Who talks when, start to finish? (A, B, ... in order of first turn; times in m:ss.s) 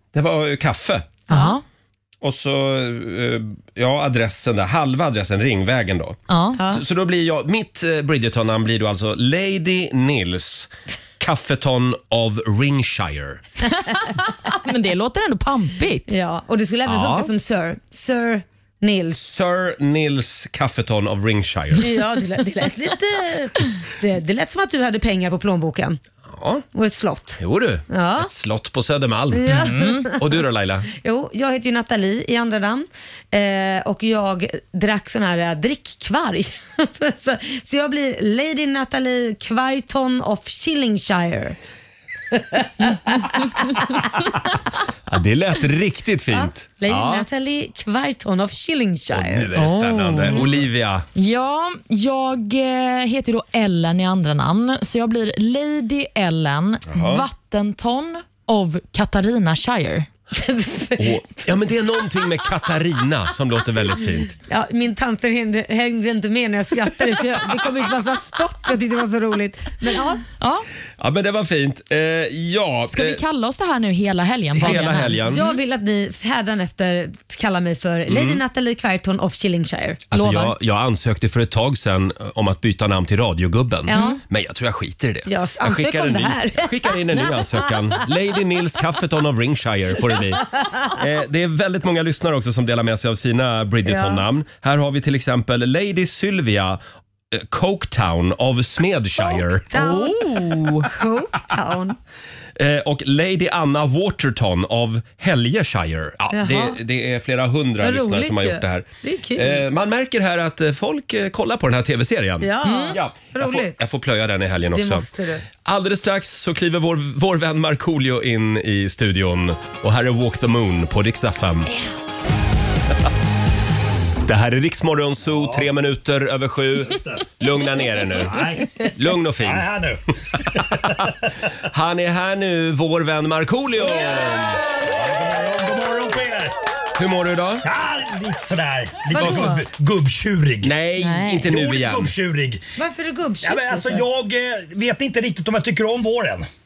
0:00.1-0:01.2 A
0:01.3-0:01.6 B
0:01.3-0:01.6 C
0:02.2-0:13.4 A
0:06.3-0:06.6 B
0:06.6-0:06.8 C
0:13.7-0:16.1 B
0:16.1-0:19.2 C
0:16.9-0:17.3 A
0:19.2-0:21.9 A
0:21.8-0:26.0 C
0:26.3-0:26.6 A
0:26.7-0:28.3 C
0:27.4-0:30.9 A
0:29.3-0:30.4 C
0:29.5-0:30.1 B
0:31.0-0:41.6 C
0:42.4-0:44.0 C
0:45.1-0:47.3 A
0:46.3-0:49.5 C
0:49.1-0:51.1 A
0:49.6-0:50.4 B
0:51.2-1:00.1 B
0:56.9-0:57.3 A
1:00.3-1:01.2 C
1:01.0-1:04.4 A
1:04.5-1:10.2 C
1:11.0-1:13.2 A
1:12.9-1:15.5 B
1:14.6-1:15.4 A
1:14.6-1:20.0 C
1:18.1-1:18.4 A
1:20.1-1:36.8 A
1:20.1-1:20.6 B
1:23.9-1:24.2 C
1:23.9-1:24.2 B
1:25.3-1:27.7 C
1:33.8-1:34.2 C
1:37.3-1:39.7 A
1:39.2-1:42.0 C
1:39.7-1:40.9 B
1:42.6-1:55.1 A
1:46.3-1:46.8 C
1:47.8-1:49.6 C
1:52.4-1:53.8 C
1:52.6-1:53.0 B
1:54.7-1:55.5 C
1:55.6-2:01.7 A
2:04.2-2:09.7 A
2:05.3-2:05.7 D
2:06.9-2:07.3 D
2:08.2-2:08.8 D
2:09.4-2:11.1 D
2:10.4-2:11.1 A
2:11.6-2:14.6 A
2:14.8-2:16.5 D
2:17.0-2:17.7 A
2:17.6-2:20.7 D
2:19.1-2:19.6 C
2:19.2-2:19.5 A
2:20.6-2:22.1 A
2:21.0-2:21.5 B
2:21.4-2:22.6 D
2:22.8-2:24.0 C
2:23.4-2:26.5 D